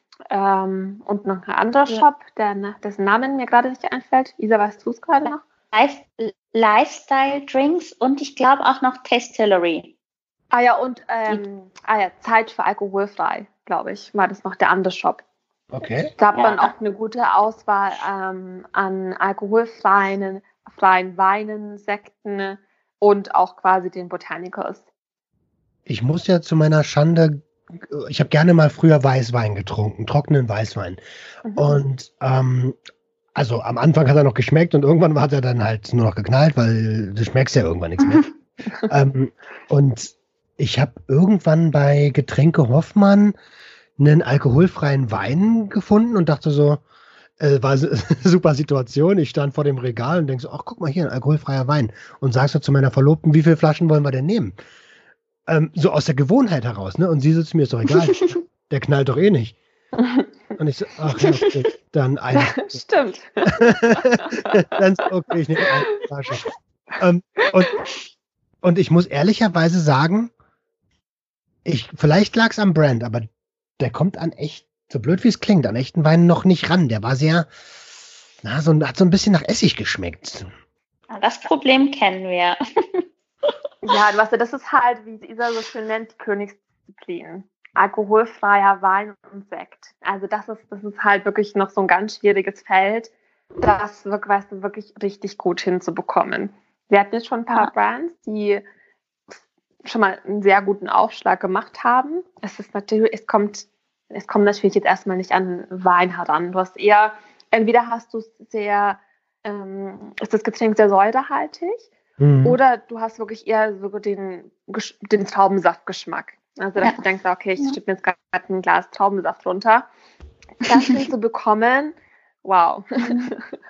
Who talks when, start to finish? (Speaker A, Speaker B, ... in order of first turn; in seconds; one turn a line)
Speaker A: 0.3-5.4
Speaker B: 5.2-9.9
Speaker A: 10.5-15.2
Speaker C: 15.7-16.1
Speaker A: 16.2-24.8
Speaker B: 16.3-16.7
Speaker C: 25.9-31.0
Speaker A: 31.4-31.8
Speaker C: 31.6-32.8
Speaker C: 33.3-38.2
Speaker B: 38.0-38.3
Speaker C: 38.9-43.3
Speaker C: 44.0-46.8
Speaker C: 47.4-54.6
Speaker C: 55.5-59.6
Speaker A: 60.0-60.3
Speaker C: 60.6-62.8
Speaker A: 62.3-63.6
Speaker C: 63.5-66.4
Speaker A: 64.2-64.8
Speaker C: 67.0-67.7
Speaker C: 68.6-70.3
Speaker C: 71.6-73.2
Speaker C: 73.8-77.5
Speaker C: 78.4-80.5
Speaker B: 81.1-82.6
Speaker A: 83.8-98.6
Speaker A: 99.8-111.9
Speaker C: 112.2-112.6
Speaker A: 112.4-119.9
Speaker A: 120.6-123.5